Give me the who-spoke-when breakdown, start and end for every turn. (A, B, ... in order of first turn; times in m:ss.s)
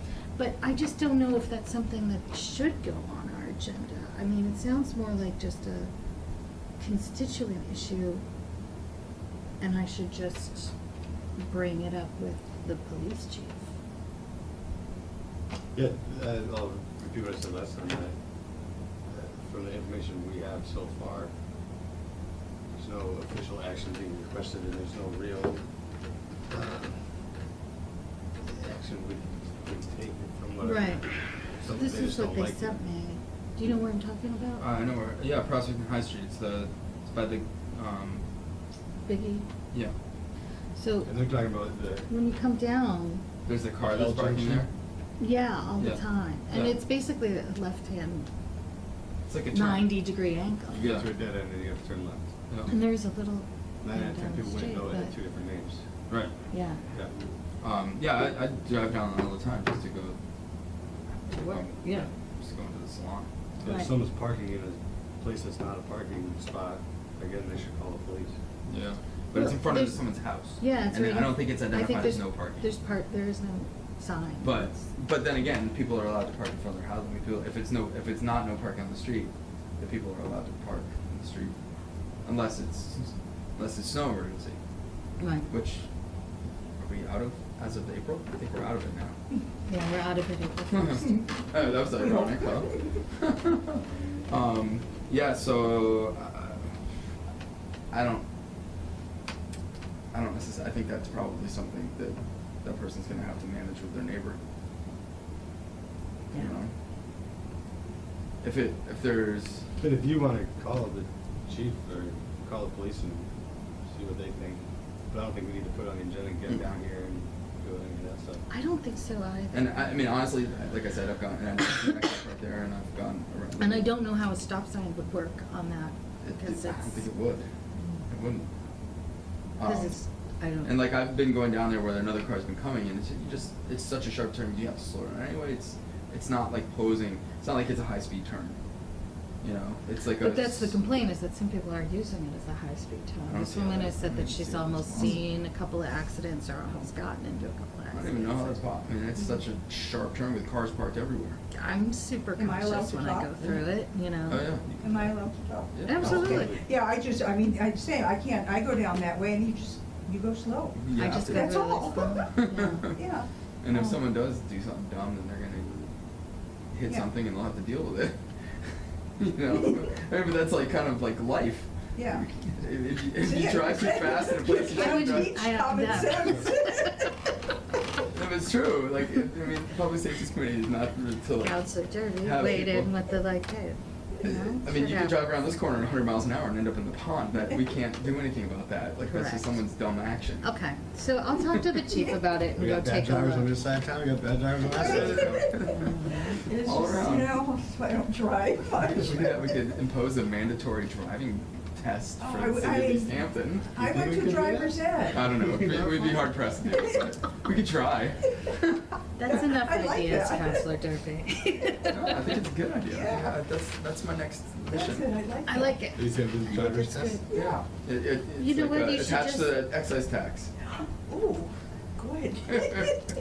0:00.4-0:05.9 A
0:06.8-0:08.2 A
0:09.6-0:10.7 A
0:11.4-0:13.7 A
0:15.7-0:18.2 B
0:19.1-0:21.3 B
0:22.7-0:25.6 B
0:26.5-0:27.1 B
0:28.5-0:32.8 B
0:30.6-0:34.7 A
0:34.6-0:38.2 C
0:39.0-0:39.5 A
0:40.7-0:41.1 A
0:41.0-0:42.1 B
0:42.1-0:43.2 A
0:43.5-0:44.7 C
0:43.8-0:44.7 B
0:45.2-0:48.3 A
0:45.8-0:46.8 C
0:49.3-0:50.0 C
0:49.5-0:50.9 A
0:50.7-0:52.3 B
0:50.8-0:51.1 C
0:52.5-0:52.7 C
0:52.7-0:55.1 A
0:53.8-0:55.8 B
0:56.5-0:56.8 A
0:57.6-1:00.2 C
1:01.2-1:03.3 C
1:01.3-1:02.1 A
1:03.6-1:08.4 B
1:03.6-1:03.9 A
1:08.7-1:12.7 C
1:09.3-1:14.8 A
1:14.4-1:21.6 C
1:22.2-1:24.6 C
1:25.2-1:25.5 A
1:25.5-1:25.9 C
1:26.8-1:29.2 C
1:29.7-1:31.2 A
1:30.7-1:36.8 C
1:37.9-1:38.2 C
1:40.1-1:44.4 C
1:46.3-1:46.7 C
1:48.4-1:49.7 C
1:49.8-1:53.3 B
1:53.9-1:58.4 B
1:58.5-1:59.9 A
1:59.5-2:03.9 C
2:03.6-2:07.1 A
2:06.2-2:07.5 C
2:08.1-2:08.5 C
2:09.6-2:10.0 C
2:09.6-2:10.8 A
2:10.6-2:18.6 C
2:19.4-2:20.8 C
2:20.2-2:28.6 A
2:23.3-2:25.2 C
2:27.9-2:31.4 C
2:31.5-2:34.5 A
2:32.4-2:33.6 D
2:34.3-2:35.2 C
2:34.8-2:42.2 D
2:35.7-2:36.5 C
2:35.8-2:36.5 A
2:36.0-2:36.6 B
2:40.8-2:43.0 C
2:40.9-2:42.9 A
2:42.9-2:43.3 D
2:43.6-2:45.9 C
2:46.7-2:55.4 C
2:52.0-2:52.2 D
2:53.2-2:57.1 D
2:54.8-2:57.0 A
2:58.1-3:01.6 C
3:01.4-3:05.4 A
3:02.2-3:03.0 C
3:04.2-3:10.5 C
3:09.1-3:09.6 A
3:10.4-3:13.5 A
3:12.6-3:15.5 B
3:14.7-3:15.7 D
3:14.8-3:17.4 C
3:15.7-3:16.4 A
3:16.3-3:19.6 D
3:18.9-3:19.3 B
3:19.1-3:23.7 C
3:22.2-3:23.2 D
3:23.7-3:25.3 D
3:23.8-3:26.2 B
3:25.1-3:28.8 C
3:29.2-3:32.2 A
3:29.3-3:30.7 D
3:31.9-3:35.1 C
3:32.9-3:33.4 D
3:34.7-3:35.8 D
3:35.5-3:37.3 A
3:36.0-3:37.2 B
3:37.3-3:37.6 D
3:37.3-3:40.5 C
3:38.4-3:39.6 A
3:41.0-3:43.1 D
3:42.5-3:42.9 C